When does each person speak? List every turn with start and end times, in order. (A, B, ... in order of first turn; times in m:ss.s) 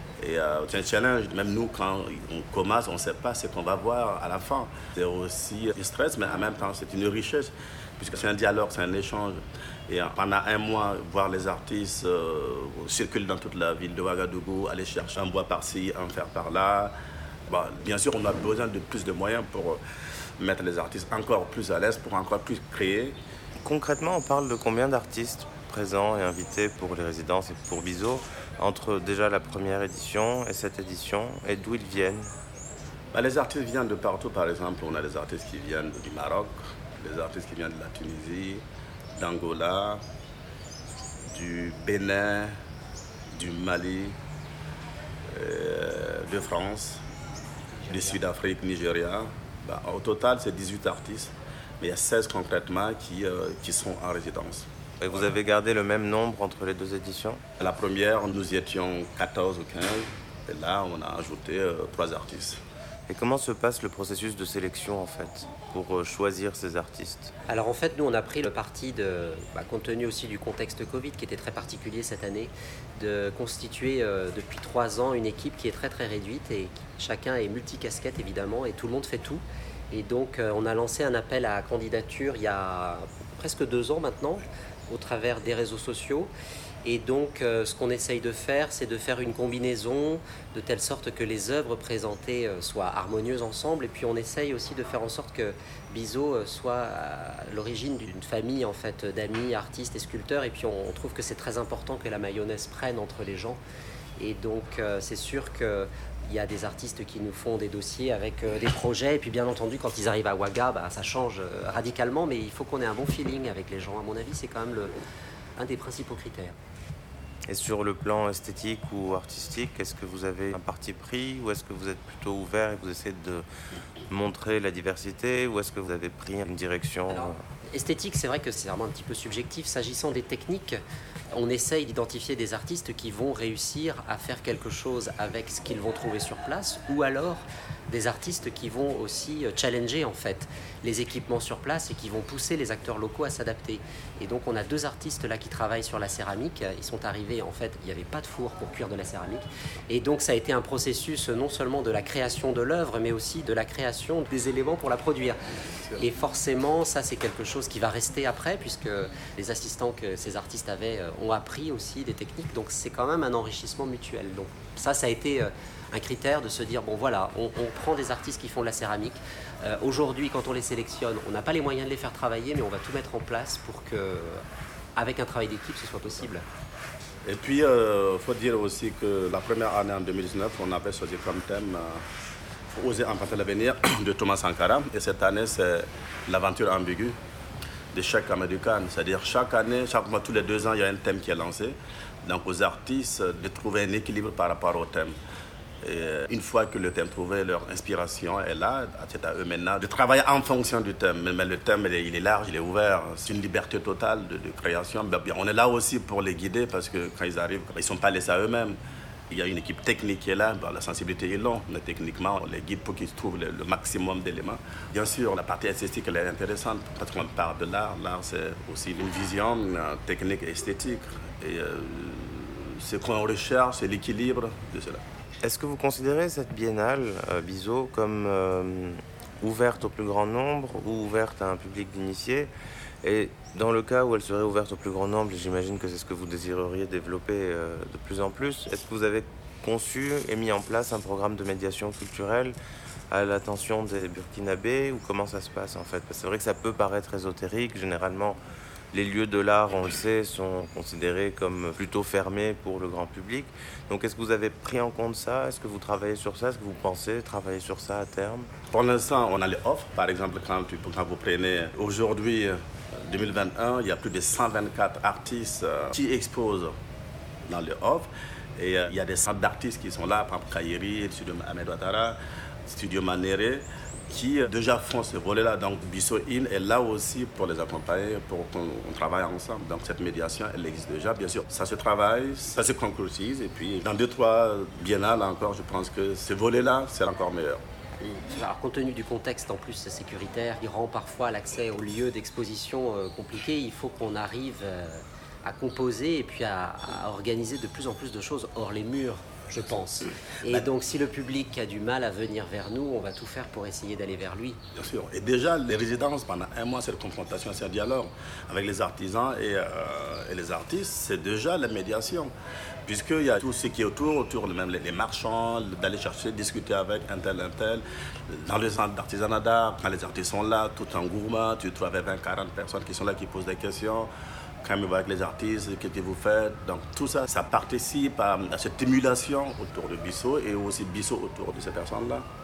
0:00.2-0:16.9 A
0:17.5-0:19.8 A
0:20.4-0:23.2 A
0:23.6-0:32.3 B
0:33.1-0:38.6 A
0:39.2-0:40.0 A
0:41.3-0:42.5 A
0:43.3-0:44.2 A
0:45.3-0:47.0 A
0:47.7-0:48.2 C
0:47.9-0:54.7 A
0:55.0-0:57.4 B
0:57.6-1:02.6 A
1:03.1-1:07.3 B
1:07.5-1:26.3 C
1:26.8-1:43.6 C
1:44.2-1:54.9 C
1:55.6-1:56.6 C
1:57.5-2:03.4 B
2:04.1-2:07.4 B
2:07.1-2:10.8 C
2:11.3-2:35.4 C
2:36.0-2:54.4 C
2:55.0-2:56.4 C
2:57.2-3:02.0 A
3:02.7-3:07.2 A
3:07.9-3:15.1 A
3:15.8-3:28.8 A
3:29.3-3:45.0 A
3:45.4-3:52.5 B
3:53.0-4:02.6 B
4:03.1-4:08.4 B
4:08.9-4:18.5 B
4:18.7-4:26.7 A
4:27.4-4:47.6 A
4:48.0-5:04.6 C
5:04.8-5:12.3 A
5:12.8-5:24.1 A
5:24.6-5:32.2 A